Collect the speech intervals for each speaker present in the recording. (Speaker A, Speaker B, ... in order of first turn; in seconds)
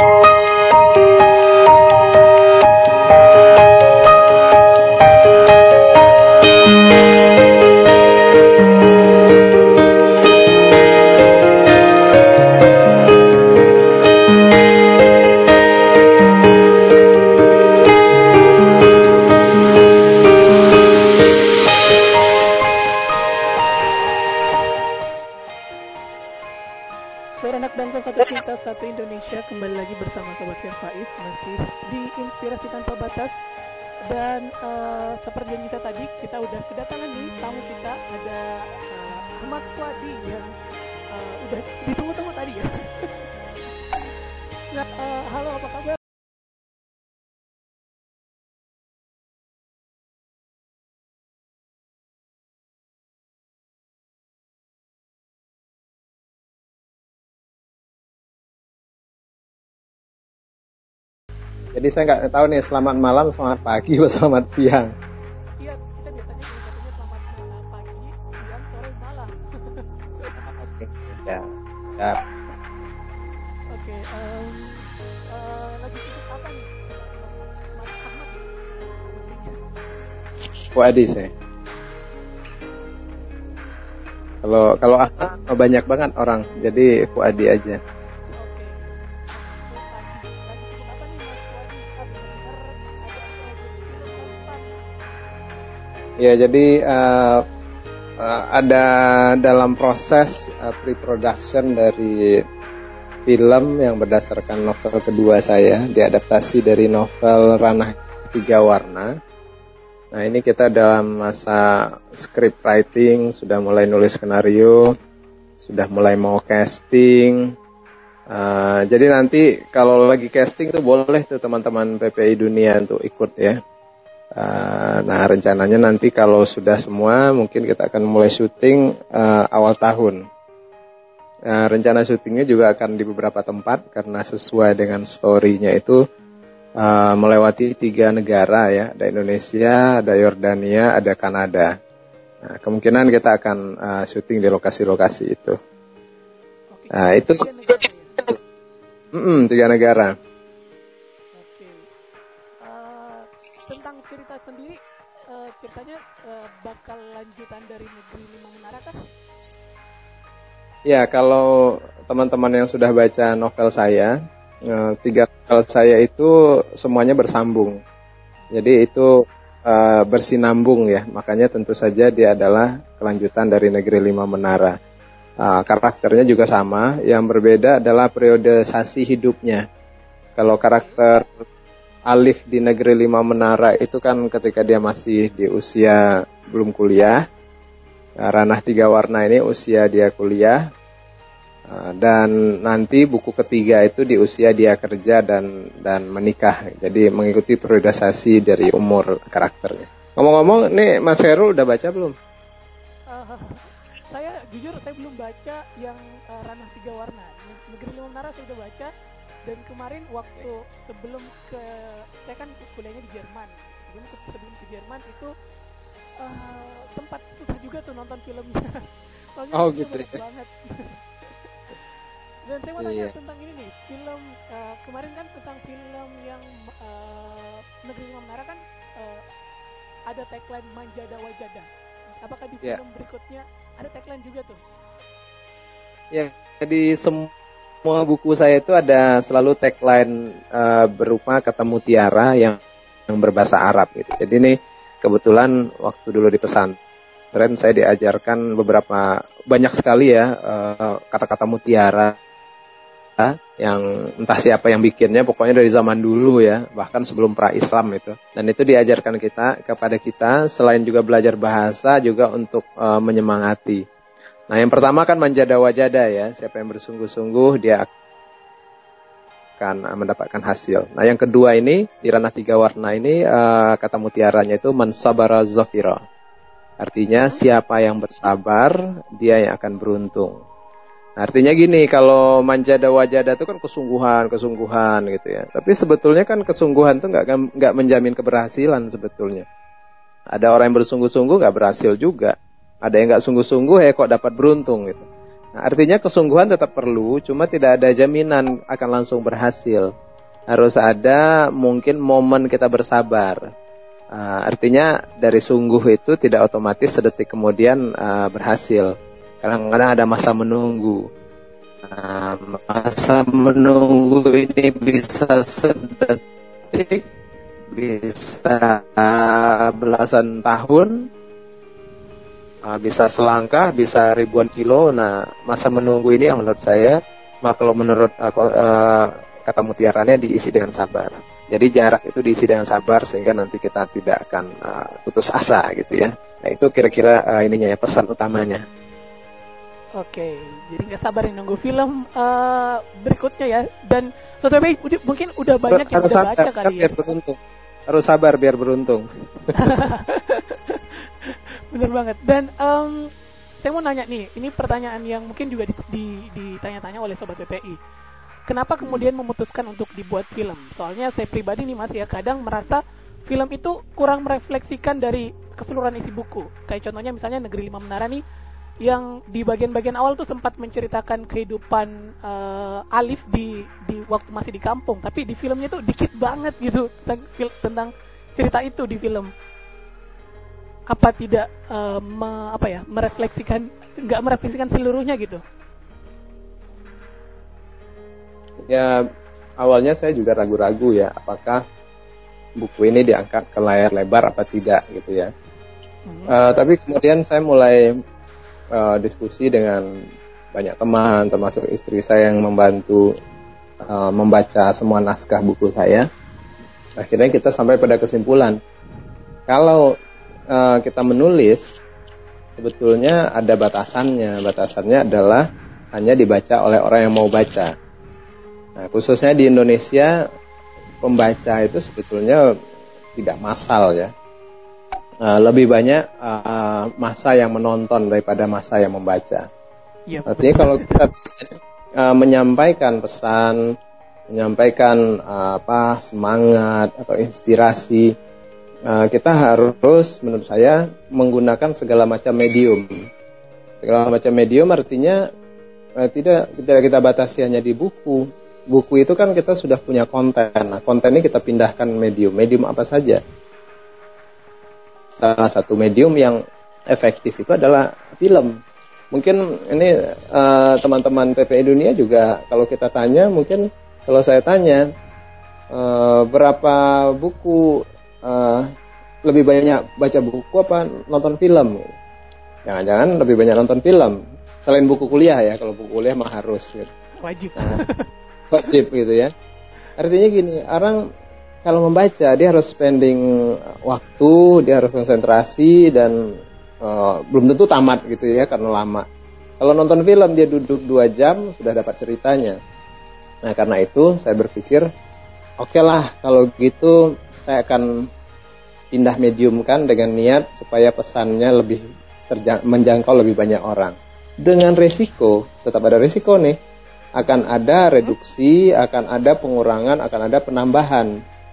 Speaker A: 27.4-33.4, 34.0-40.5, 41.1-43.2, 44.7-46.0, 65.6-70.3, 73.7-79.8, 88.3-94.7, 146.7-148.3, 151.4-151.8, 152.6-158.9, 180.6-181.0, 203.1-208.9, 209.5-215.3, 216.2-221.3, 222.5-229.2, 230.1-234.6, 340.0-346.9, 349.6-353.1, 353.6-357.8, 358.5-368.2, 368.9-379.3, 380.9-385.4, 396.1-396.4, 430.1-431.0, 477.2-478.1
Speaker B: 61.7-64.9, 70.4-72.2, 80.7-81.3, 84.4-87.8, 96.2-97.4, 98.2-102.4, 103.3-109.1, 110.1-114.9, 115.6-117.4, 118.3-123.6, 124.4-130.2, 131.5-136.0, 136.8-141.7, 142.4-145.6, 146.9-147.4, 149.2-150.1, 160.9-164.2, 164.7-167.7, 168.5-174.7, 175.4-179.6, 180.4-181.4, 182.1-186.0, 186.5-187.2, 188.2-190.6, 191.7-202.2, 219.5-220.2, 222.8-223.1, 236.1-237.3, 237.8-246.8, 247.3-252.2, 253.2-263.8, 264.5-267.9, 269.6-276.0, 276.8-280.3, 281.2-289.5, 290.3-299.9, 300.5-303.4, 304.1-308.9, 309.4-311.0, 311.9-316.2, 316.7-317.1, 317.7-321.1, 322.6-338.6, 345.7-347.4, 347.9-349.1, 388.7-389.0, 389.6-391.6, 392.6-395.3, 396.3-397.9, 398.7-399.9, 400.5-403.1, 403.9-406.1, 407.0-408.6, 409.5-409.8, 410.5-411.6, 412.6-417.7, 418.8-420.1, 421.0-422.4, 423.1-424.1, 425.2-429.5, 430.3-433.6, 434.3-438.0, 438.9-442.8, 443.8-445.2, 446.0-453.2, 455.1-456.4, 456.9-458.5, 459.1-464.8, 465.7-467.6, 468.2-468.7, 469.3-471.9, 472.7-476.9, 478.5-479.3, 480.0-481.0, 481.6-483.2, 483.9-486.2, 486.8-489.1, 489.6-492.6, 493.5-494.9, 495.6-497.9, 498.9-506.6, 507.2-511.1